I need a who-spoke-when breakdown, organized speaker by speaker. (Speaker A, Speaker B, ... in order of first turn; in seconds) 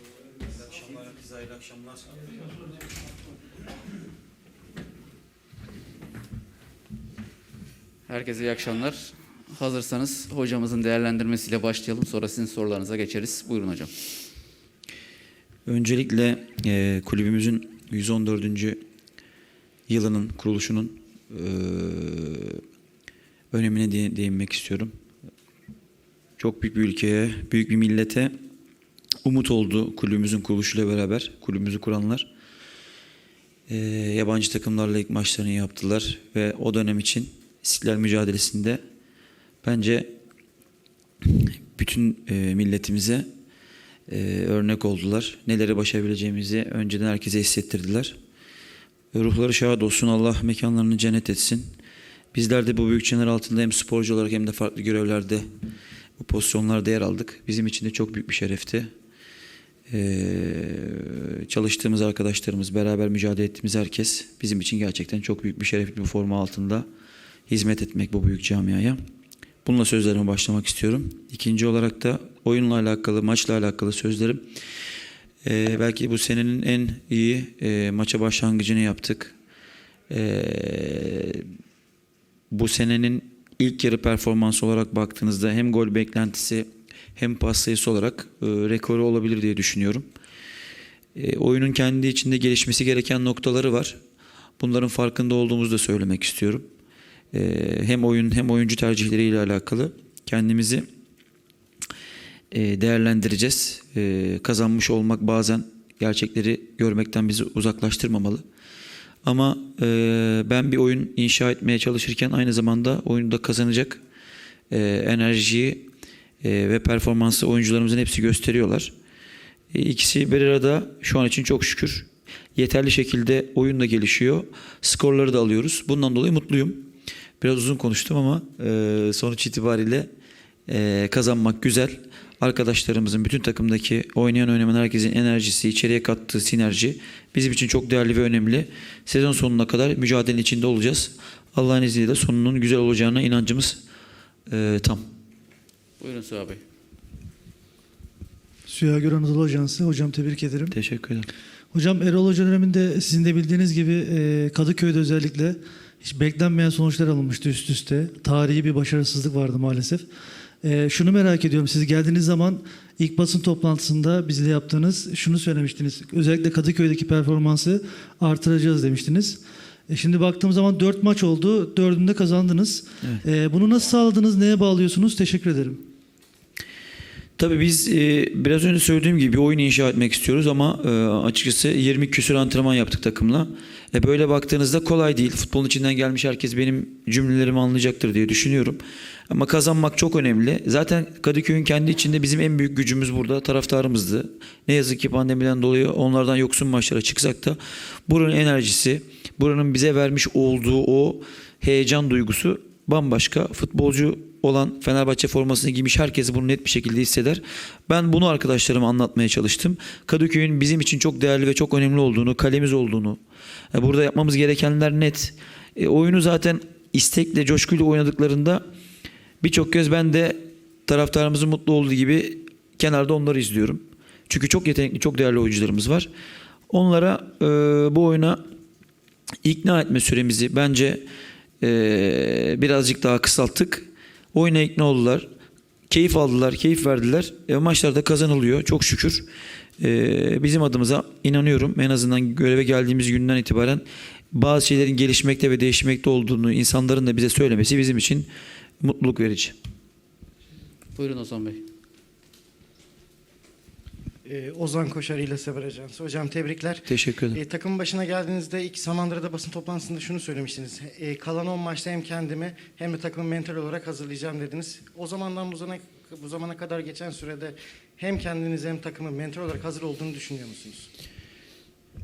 Speaker A: 0.3-2.4, 15.7-18.8, 19.9-22.6, 23.5-24.9, 26.4-28.3, 29.2-32.3, 33.7-38.8, 39.6-40.1, 41.2-43.3, 44.1-48.2, 49.1-51.7, 52.3-55.5, 56.2-58.9, 59.9-66.9, 67.5-69.0, 69.7-74.4, 75.4-79.3, 80.1-81.5, 82.5-90.1, 91.2-94.0, 94.6-96.7, 97.3-100.8, 102.5-108.4, 109.2-114.0, 114.7-115.9, 116.4-118.9, 119.7-126.9, 127.4-130.1, 130.7-143.8, 144.5-145.1, 150.7-151.3, 177.4-213.2, 213.7-218.6, 219.4-226.1, 226.7-228.4, 229.4-231.0, 231.6-235.3, 235.9-239.3, 239.8-248.3, 248.8-249.5, 256.9-257.4
Speaker B: 8.1-13.9, 146.0-146.6, 251.0-251.6
Speaker C: 148.7-150.8, 151.7-160.1, 160.6-175.8
Speaker D: 254.2-270.9